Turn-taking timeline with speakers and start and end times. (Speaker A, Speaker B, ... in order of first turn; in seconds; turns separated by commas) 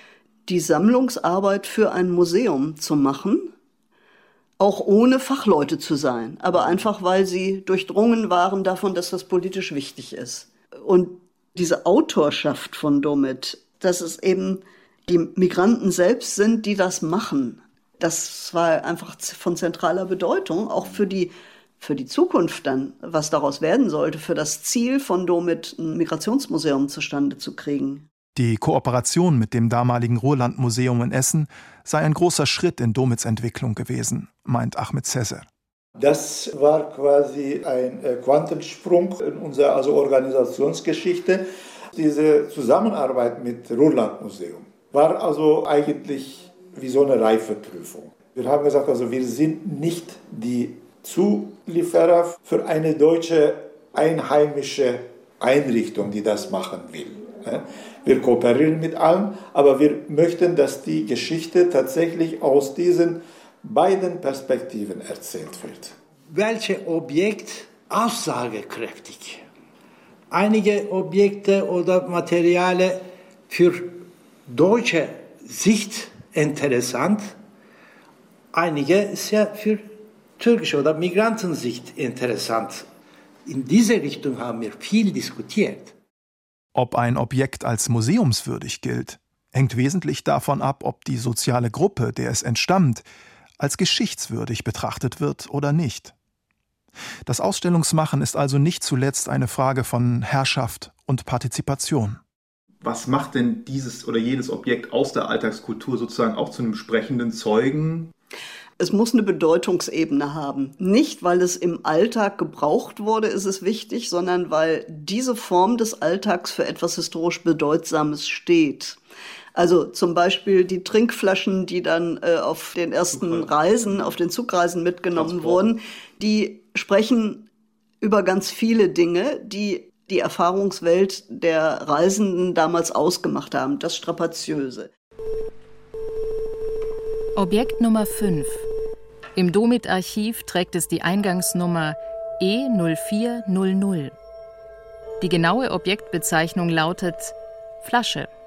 Speaker A: 0.5-3.5, Speaker A: 4.6-28.0, Speaker B: 28.3-35.5, Speaker C: 36.0-65.9, Speaker D: 66.3-69.4, Speaker D: 70.3-77.3, Speaker D: 78.5-79.8, Speaker D: 80.4-82.8, Speaker D: 83.5-85.9, Speaker B: 86.7-93.0, Speaker B: 93.6-96.1, Speaker B: 97.2-102.2, Speaker E: 102.8-108.1, Speaker A: 108.8-119.0, Speaker A: 119.5-127.5, Speaker A: 128.0-134.9, Speaker F: 137.3-138.7, Speaker F: 139.3-144.1, Speaker F: 145.2-148.3